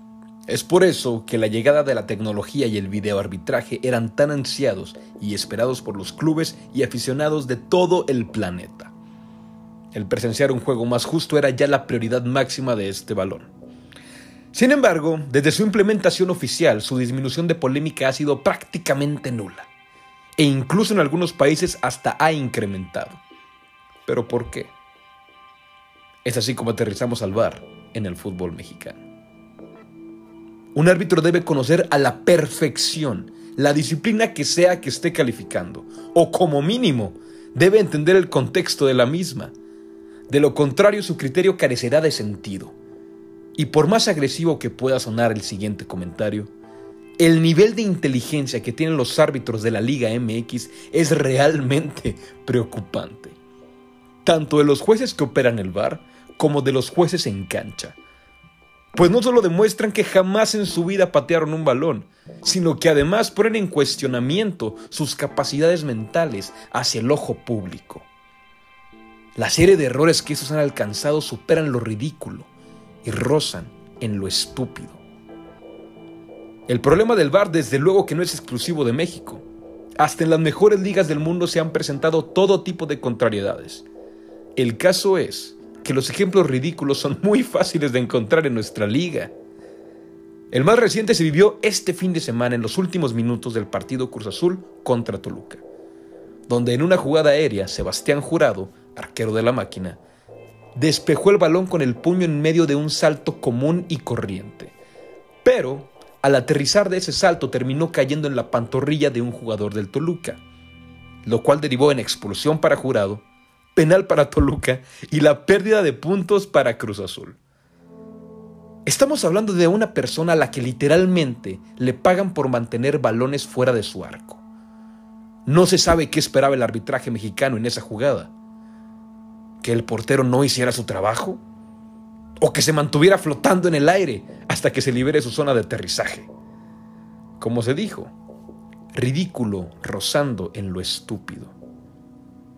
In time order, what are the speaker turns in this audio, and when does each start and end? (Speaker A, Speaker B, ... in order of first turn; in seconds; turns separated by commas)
Speaker A: 0.5-8.9, Speaker A: 9.9-13.5, Speaker A: 14.5-19.7, Speaker A: 20.4-23.2, Speaker A: 24.1-24.7, Speaker A: 26.2-29.0, Speaker A: 30.7-39.5, Speaker A: 40.3-42.7, Speaker A: 43.5-46.5, Speaker A: 47.2-53.4, Speaker A: 54.2-57.9, Speaker A: 58.9-68.0, Speaker A: 69.3-72.5, Speaker A: 73.0-75.0, Speaker A: 76.7-79.4, Speaker A: 80.0-83.8, Speaker A: 84.5-89.3, Speaker A: 90.5-95.6, Speaker A: 96.5-100.0, Speaker A: 100.8-104.7, Speaker A: 105.4-110.4, Speaker A: 111.2-113.2, Speaker A: 113.7-117.4, Speaker A: 118.8-124.4, Speaker A: 125.5-128.3, Speaker A: 129.6-131.4, Speaker A: 132.4-136.3, Speaker A: 137.4-138.1, Speaker A: 138.9-141.5